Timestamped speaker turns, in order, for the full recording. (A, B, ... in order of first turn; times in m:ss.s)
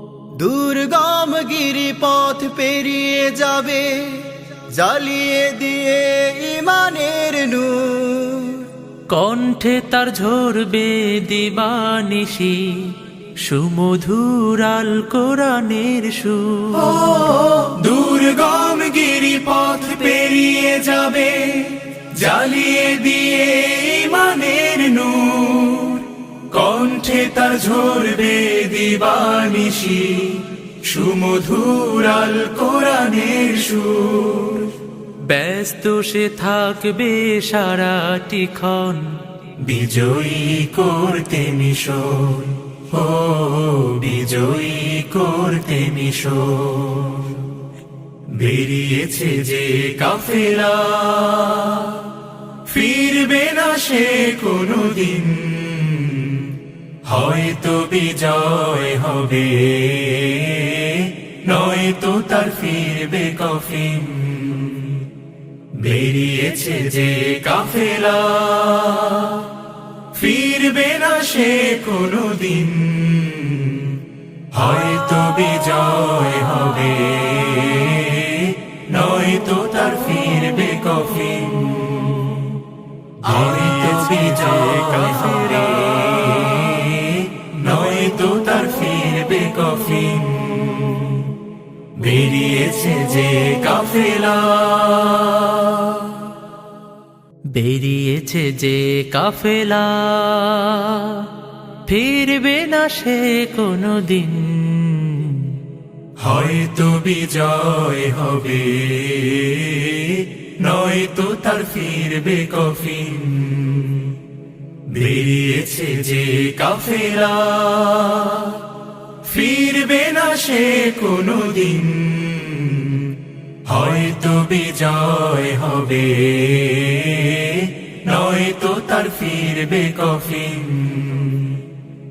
0:00.4-0:03.9 A
0:04.7-0:08.7 A
0:09.1-0:12.7 B
0:13.4-0:16.9 B
0:16.7-0:34.7 C
0:35.2-0:39.1 B
0:39.6-0:47.6 C
0:48.3-0:52.1 C
0:52.7-0:56.5 C
0:57.1-1:05.1 C
1:05.8-1:09.5 C
1:10.1-1:14.0 C
1:14.5-1:22.6 C
1:23.2-1:31.4 C
1:23.3-1:26.3 B
1:32.0-1:36.3 C
1:37.5-1:41.3 B
1:41.9-1:45.6 B
1:46.2-1:54.2 C
1:54.9-1:58.6 C
1:59.2-2:03.1 C
2:03.6-2:11.6 C